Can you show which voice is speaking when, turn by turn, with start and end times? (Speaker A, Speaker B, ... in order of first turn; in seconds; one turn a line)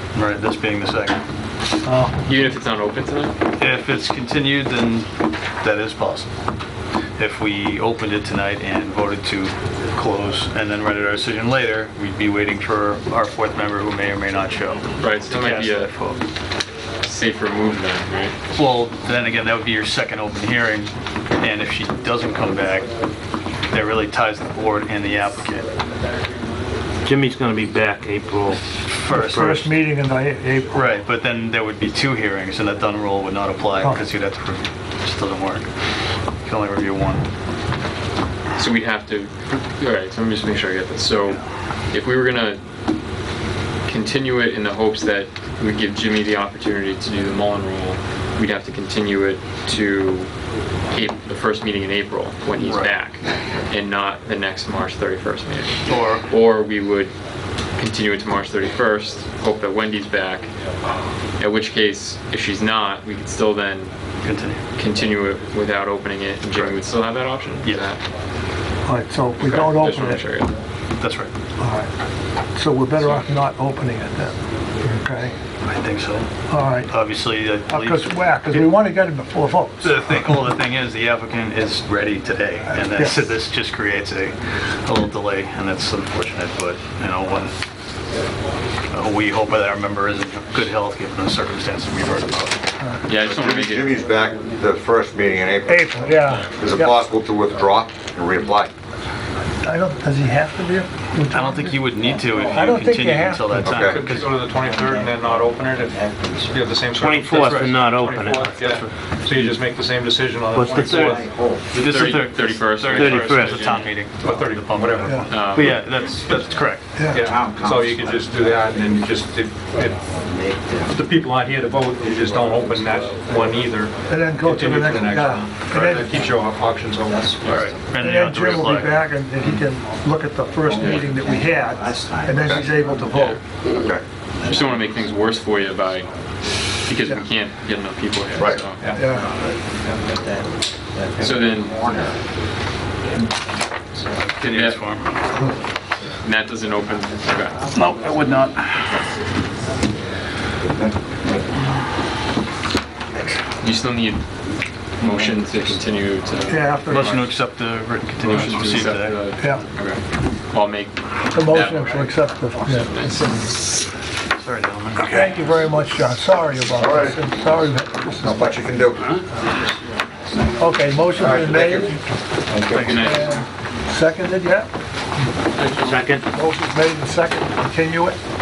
Speaker A: 0.1-1.2
Speaker B: 1.8-2.2
Speaker C: 2.2-3.4
Speaker A: 3.6-5.1
Speaker A: 5.6-6.3
Speaker A: 7.2-16.2
Speaker C: 15.0-15.9
Speaker C: 17.0-18.4
Speaker A: 18.5-22.9
Speaker A: 23.7-25.7
Speaker D: 27.0-28.6
Speaker A: 28.5-29.8
Speaker B: 29.1-30.8
Speaker A: 30.7-35.7
Speaker A: 36.4-37.2
Speaker C: 38.6-42.6
Speaker C: 43.9-50.3
Speaker C: 50.9-57.1
Speaker A: 52.5-52.9
Speaker A: 55.9-56.3
Speaker C: 57.8-60.5
Speaker C: 61.4-63.9
Speaker A: 64.2-64.6
Speaker C: 64.8-68.0
Speaker A: 67.6-67.9
Speaker B: 68.8-70.2
Speaker C: 69.4-70.5
Speaker A: 71.0-71.3
Speaker B: 71.6-71.9
Speaker B: 72.5-75.3
Speaker A: 75.6-76.3
Speaker B: 76.5-76.9
Speaker A: 76.8-78.8
Speaker B: 77.7-80.3
Speaker A: 79.8-87.5
Speaker B: 82.7-83.3
Speaker A: 88.9-92.6
Speaker C: 93.0-94.0
Speaker E: 93.1-98.7
Speaker B: 95.7-96.9
Speaker C: 96.2-96.5
Speaker B: 99.6-101.8
Speaker A: 101.3-104.3
Speaker B: 102.3-103.8
Speaker E: 103.6-104.0
Speaker F: 103.8-111.4
Speaker D: 107.0-108.7
Speaker A: 107.3-107.8
Speaker A: 108.7-108.9
Speaker D: 110.5-111.3
Speaker C: 111.7-113.9
Speaker A: 111.7-117.1
Speaker D: 112.9-113.7
Speaker F: 114.2-115.5
Speaker B: 115.0-115.3
Speaker C: 115.3-115.8
Speaker B: 117.0-117.3
Speaker F: 117.1-120.1
Speaker D: 120.3-120.8
Speaker F: 120.9-127.7
Speaker B: 124.1-126.1
Speaker A: 127.4-128.9
Speaker B: 128.0-133.4
Speaker C: 130.8-131.0
Speaker E: 132.3-132.7
Speaker C: 133.1-133.4
Speaker E: 133.7-134.0
Speaker C: 134.4-136.1
Speaker C: 136.7-138.9
Speaker E: 138.4-138.6
Speaker F: 138.8-139.1
Speaker B: 138.9-139.3
Speaker D: 141.0-141.3
Speaker C: 141.2-141.8
Speaker A: 144.1-145.2
Speaker C: 144.4-144.8
Speaker C: 146.2-147.7
Speaker A: 147.7-149.2
Speaker E: 150.7-151.4
Speaker C: 153.6-154.2
Speaker C: 155.0-157.4
Speaker B: 156.4-157.2
Speaker A: 156.9-159.2
Speaker C: 158.2-163.5
Speaker B: 161.3-162.9
Speaker A: 164.3-165.5
Speaker B: 165.0-168.6
Speaker E: 166.7-167.3
Speaker E: 168.1-169.1
Speaker B: 170.6-172.0
Speaker E: 171.2-173.0
Speaker C: 172.7-173.4
Speaker B: 172.8-174.7
Speaker D: 175.7-176.2
Speaker B: 176.3-178.2